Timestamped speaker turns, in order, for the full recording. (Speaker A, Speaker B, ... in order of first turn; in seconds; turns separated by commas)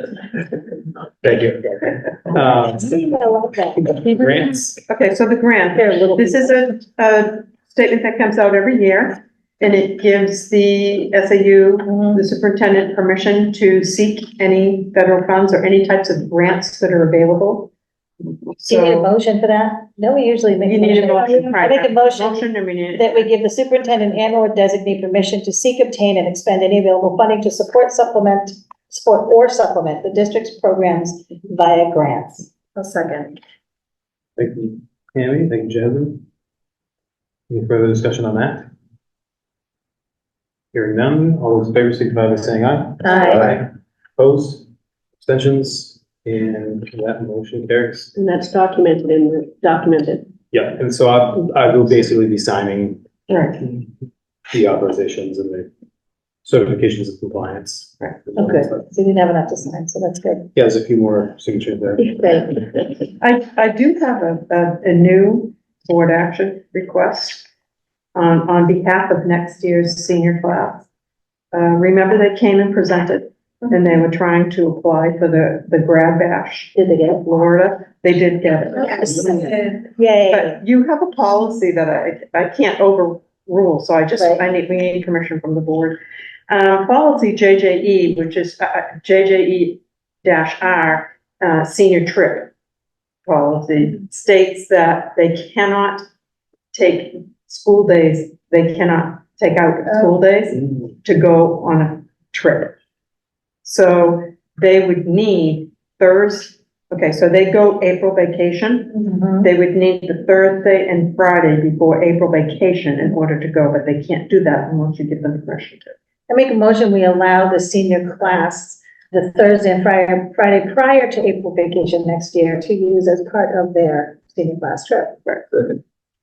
Speaker A: 1.2-2.9, Speaker B: 2.3-4.4, Speaker A: 3.8-4.8, Speaker C: 4.9-19.1, Speaker B: 5.8-6.6, Speaker B: 11.9-12.2, Speaker B: 18.6-33.4, Speaker C: 20.6-23.2, Speaker A: 34.4-36.2, Speaker A: 37.5-38.7, Speaker A: 40.7-43.6, Speaker B: 43.0-43.5, Speaker A: 44.2-44.6, Speaker A: 45.2-48.1, Speaker D: 48.1-50.3, Speaker A: 50.5-53.1, Speaker C: 53.3-53.7, Speaker A: 54.5-55.7, Speaker A: 56.4-58.8, Speaker B: 58.4-60.5, Speaker A: 60.5-62.5, Speaker C: 63.2-67.5, Speaker C: 68.1-70.8, Speaker C: 71.5-79.4, Speaker B: 76.7-77.2, Speaker B: 78.7-80.6, Speaker C: 80.3-86.0, Speaker B: 84.2-84.4, Speaker C: 86.5-92.5, Speaker C: 93.2-96.0, Speaker C: 96.7-102.7, Speaker B: 99.9-100.2, Speaker C: 103.6-116.0, Speaker B: 108.9-109.5, Speaker B: 116.3-125.2